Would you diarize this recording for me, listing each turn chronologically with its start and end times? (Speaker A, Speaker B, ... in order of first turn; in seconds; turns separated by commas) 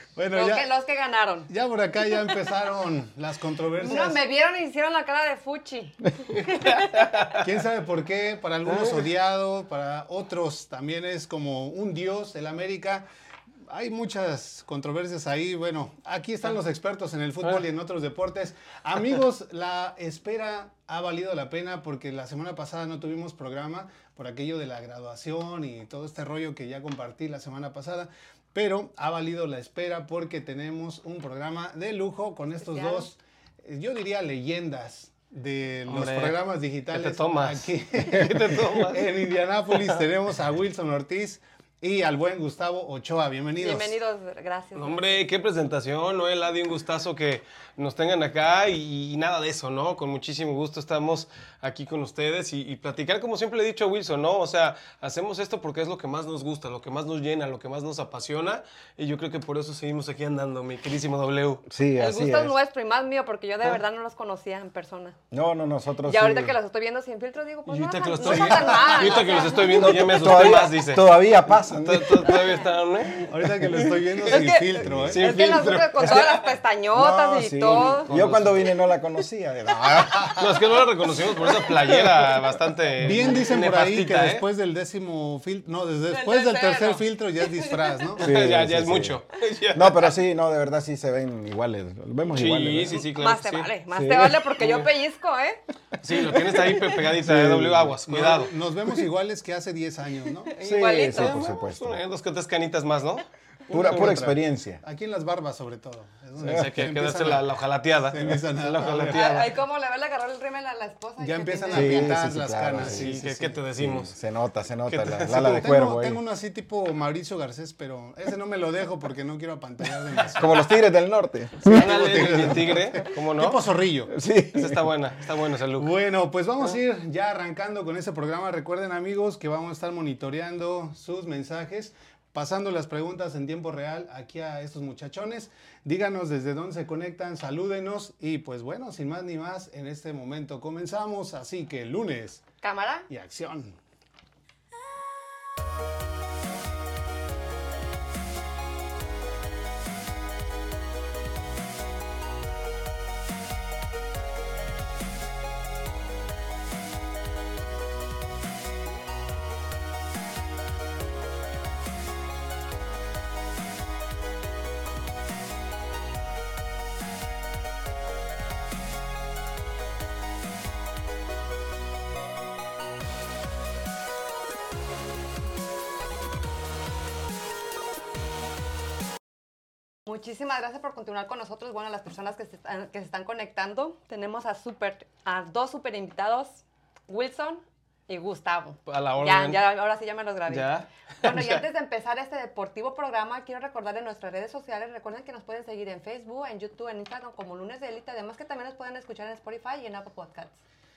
Speaker A: 0.2-0.7, Speaker B: 0.3-1.5, Speaker A: 1.5-4.2, Speaker B: 3.8-7.3, Speaker A: 7.4-13.1, Speaker A: 13.7-44.0, Speaker B: 32.6-33.1, Speaker C: 35.9-39.0, Speaker B: 43.6-45.2, Speaker C: 44.8-61.6, Speaker D: 61.7-62.5, Speaker B: 62.0-65.2, Speaker D: 65.3-66.6, Speaker B: 66.1-70.3, Speaker C: 67.7-73.3, Speaker D: 69.6-72.4, Speaker B: 72.3-72.5, Speaker A: 73.3-75.3, Speaker B: 74.3-78.1, Speaker D: 74.7-75.2, Speaker C: 75.1-76.6, Speaker D: 76.0-76.2, Speaker D: 76.9-80.7, Speaker C: 77.6-78.8, Speaker A: 80.1-80.4, Speaker C: 80.3-84.4, Speaker D: 81.7-82.3, Speaker A: 83.0-88.3, Speaker D: 83.1-83.3, Speaker B: 86.1-87.8, Speaker D: 88.2-89.2, Speaker C: 88.2-90.1, Speaker D: 89.7-93.1, Speaker C: 92.3-93.7, Speaker B: 93.0-95.6, Speaker D: 93.9-94.5, Speaker C: 94.6-94.9, Speaker C: 96.0-98.5, Speaker D: 96.2-98.0, Speaker A: 98.1-100.5, Speaker B: 100.5-101.3, Speaker D: 100.6-102.0, Speaker C: 101.0-103.3, Speaker D: 103.7-104.8, Speaker A: 103.7-107.5, Speaker C: 106.4-109.5, Speaker A: 108.1-109.2, Speaker B: 109.1-112.2, Speaker A: 111.2-113.6, Speaker D: 111.7-113.1, Speaker C: 112.8-114.2, Speaker D: 113.8-116.2, Speaker C: 114.9-115.7, Speaker A: 115.6-120.8, Speaker D: 120.4-122.7, Speaker C: 121.6-123.7, Speaker A: 121.7-124.1, Speaker D: 124.1-124.8, Speaker C: 124.5-125.9, Speaker A: 125.8-142.4, Speaker B: 142.6-143.1, Speaker A: 143.1-143.8, Speaker B: 180.1-190.7, Speaker C: 188.9-189.6, Speaker C: 190.5-191.6, Speaker B: 191.2-200.6